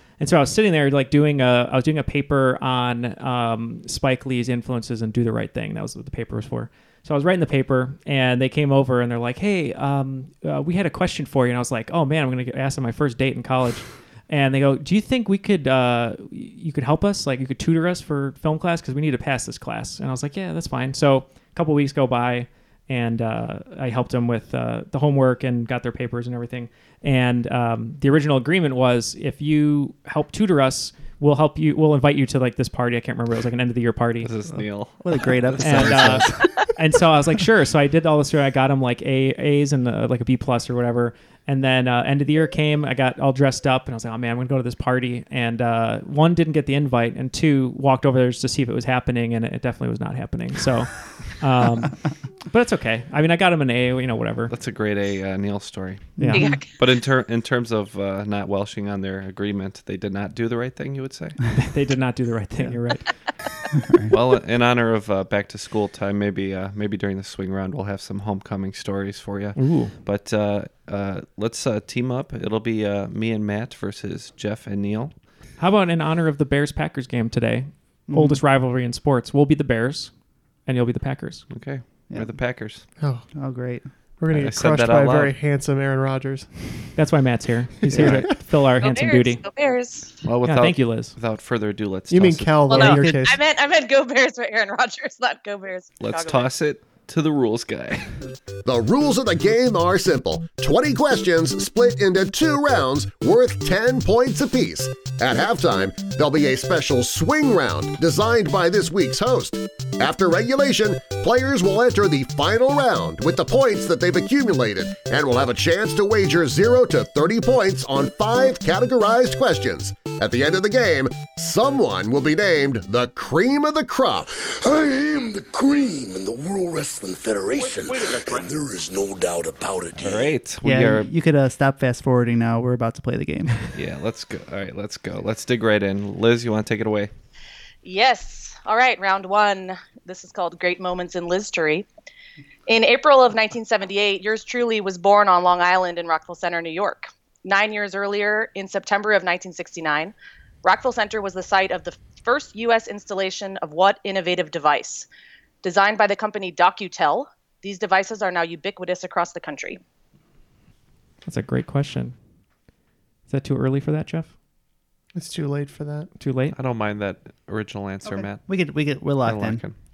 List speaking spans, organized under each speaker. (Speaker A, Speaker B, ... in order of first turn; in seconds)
Speaker A: 0.2-34.3, 35.6-54.5, 61.5-63.1, 69.5-69.9, 75.6-80.1, 80.6-81.5, 87.0-89.4, 90.4-91.2, 161.2-162.2, 163.3-164.3, 166.2-166.6
Speaker B: 34.2-36.3, 54.5-56.2, 56.8-61.4, 64.1-75.1, 81.5-82.9, 84.3-85.4, 90.2-92.8, 96.0-98.2, 129.9-131.1, 133.7-137.1, 166.5-169.8
Speaker C: 34.5-36.7, 56.2-56.6, 63.7-64.2, 78.1-78.4, 82.1-82.4, 83.3-83.9, 87.9-88.3, 92.7-93.3, 130.6-133.6, 168.0-169.6
Speaker D: 56.3-56.7, 88.8-90.1, 92.7-96.5, 137.8-141.9, 142.7-155.1, 155.6-159.8
Speaker E: 83.0-83.2, 84.2-86.5, 87.9-88.3, 92.1-93.4, 165.1-166.1
Speaker F: 98.6-124.3
Speaker G: 124.3-130.4